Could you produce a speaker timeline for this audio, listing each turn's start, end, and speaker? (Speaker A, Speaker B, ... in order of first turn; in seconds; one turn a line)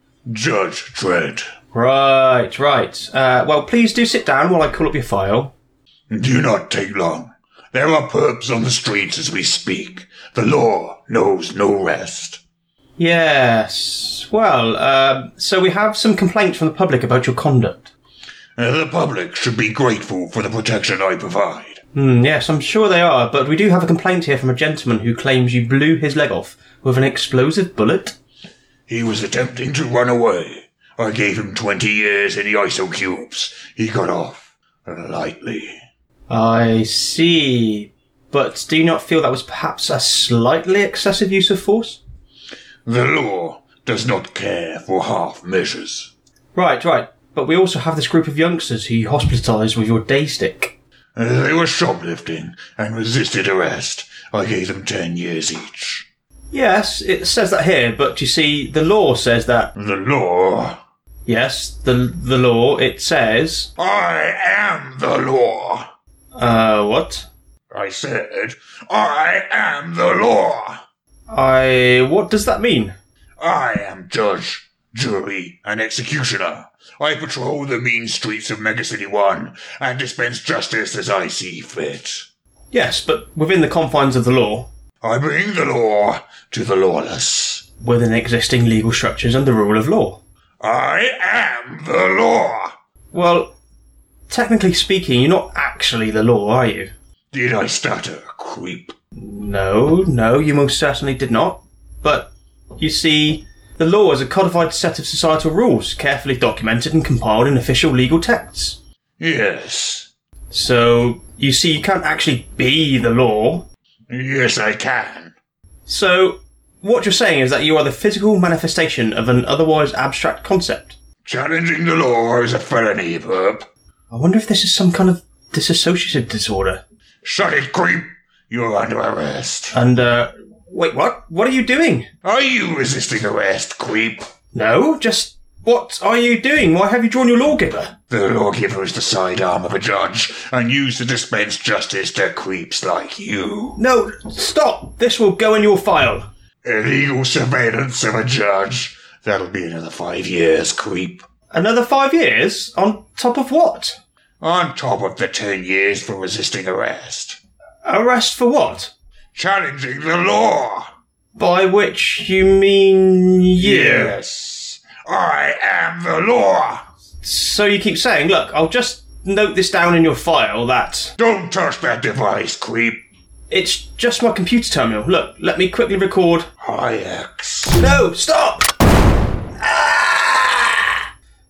Speaker A: 0.3-1.4
Speaker B: 1.7-5.5
Speaker A: 6.1-12.4
Speaker B: 13.0-17.9
Speaker A: 18.6-21.8
Speaker B: 21.9-28.1
Speaker A: 28.9-35.7
Speaker B: 36.3-42.0
Speaker A: 42.9-46.1
Speaker B: 46.5-50.7
Speaker A: 51.1-56.0
Speaker B: 56.5-59.7
Speaker A: 59.7-60.8
Speaker B: 61.2-63.7
Speaker A: 63.8-65.9
Speaker B: 66.3-67.3
Speaker A: 67.7-70.8
Speaker B: 71.3-72.9
Speaker A: 73.4-82.2
Speaker B: 82.7-84.7
Speaker A: 85.0-87.6
Speaker B: 87.8-90.2
Speaker A: 90.6-92.7
Speaker B: 93.1-93.5
Speaker B: 94.3-96.9
Speaker A: 97.3-98.9
Speaker B: 99.2-108.8
Speaker A: 109.2-110.1
Speaker B: 110.5-113.7
Speaker A: 114.1-115.3
Speaker B: 115.9-121.0
Speaker A: 121.2-123.7
Speaker B: 124.1-126.8
Speaker A: 127.2-129.8
Speaker B: 129.7-132.1
Speaker A: 132.2-134.3
Speaker B: 134.5-137.9
Speaker A: 138.1-143.8
Speaker B: 143.8-146.3
Speaker A: 146.6-151.2
Speaker B: 151.5-154.0
Speaker A: 154.4-157.4
Speaker B: 157.8-158.9
Speaker A: 159.3-160.9
Speaker B: 161.3-164.1
Speaker A: 163.6-166.8
Speaker B: 167.2-171.1
Speaker A: 171.2-173.0
Speaker B: 173.5-176.5
Speaker A: 176.6-177.8
Speaker B: 177.8-178.7
Speaker B: 179.6-180.9